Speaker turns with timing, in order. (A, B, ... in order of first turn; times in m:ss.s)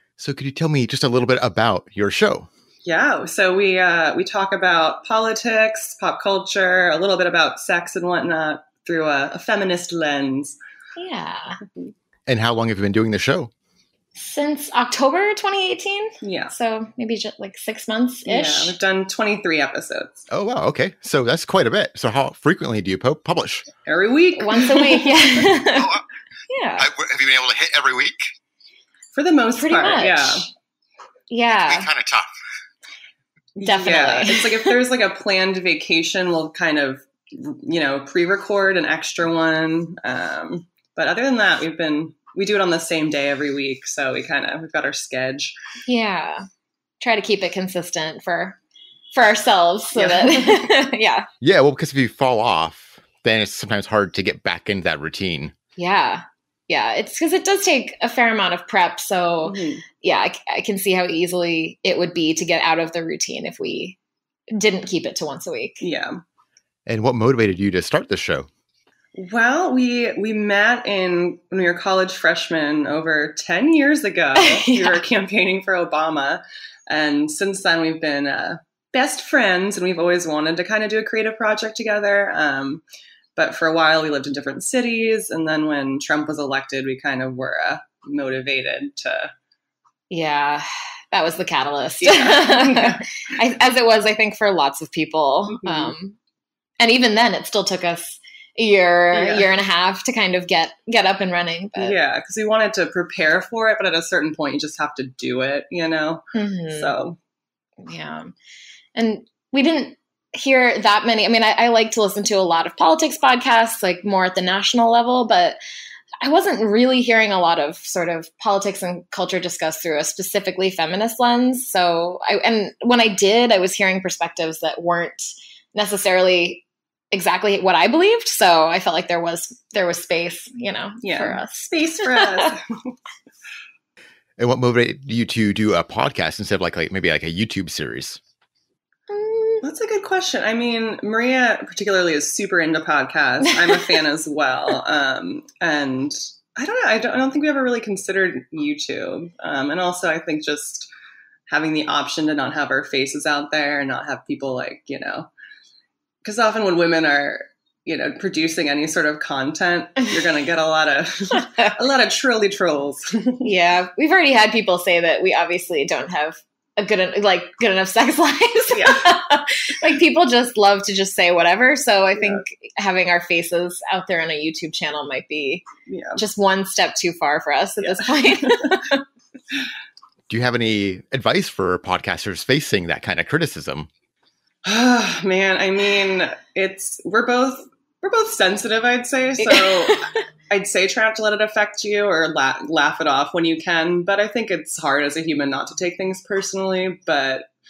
0:00.2-0:02.5 A
0:02.8-0:10.6 B
0:11.0-0:11.6 C
0:12.3-0:13.5 A
0:14.2-0:18.7 C
0:16.2-0:16.5 B
0:18.2-0:20.3 B
0:20.3-0:23.7 A
0:23.8-0:25.1 B
0:24.4-0:26.0 C
0:26.5-0:26.9 C
0:26.8-0:28.3 A
0:29.1-0:30.5 B
0:29.6-0:30.5 C
0:31.3-0:31.9 C
0:31.7-0:32.3 A
0:33.6-0:45.5 B
0:33.6-0:34.7 C
0:45.9-0:46.4 C
0:47.0-0:48.6 C
0:49.1-0:51.3 C
0:49.9-0:50.7 B
0:51.4-0:55.5 A
0:55.8-1:04.0 C
0:59.4-0:59.8 B
1:04.5-1:05.8 C
1:05.8-1:06.2 B
1:06.8-1:08.5 A
1:09.1-1:22.8 B
1:14.4-1:15.0 C
1:23.4-1:29.3 B
1:30.1-1:36.2 C
1:32.0-1:33.0 B
1:35.5-1:35.9 B
1:36.8-1:42.0 C
1:39.1-1:39.5 B
1:41.8-1:47.2 B
1:46.3-1:46.9 C
1:47.8-1:48.3 C
1:48.9-1:55.6 C
1:56.2-2:12.5 C
2:11.0-2:12.9 B
2:14.4-2:18.2 A
2:19.1-2:19.6 C
2:19.6-2:30.9 B
2:31.5-2:35.3 B
2:36.2-2:43.4 B
2:43.4-2:59.0 C
2:48.7-2:49.1 B
2:55.8-2:56.2 B
2:57.8-2:58.8 B
3:00.3-3:03.9 A
3:04.6-3:17.5 B
3:09.5-3:10.0 C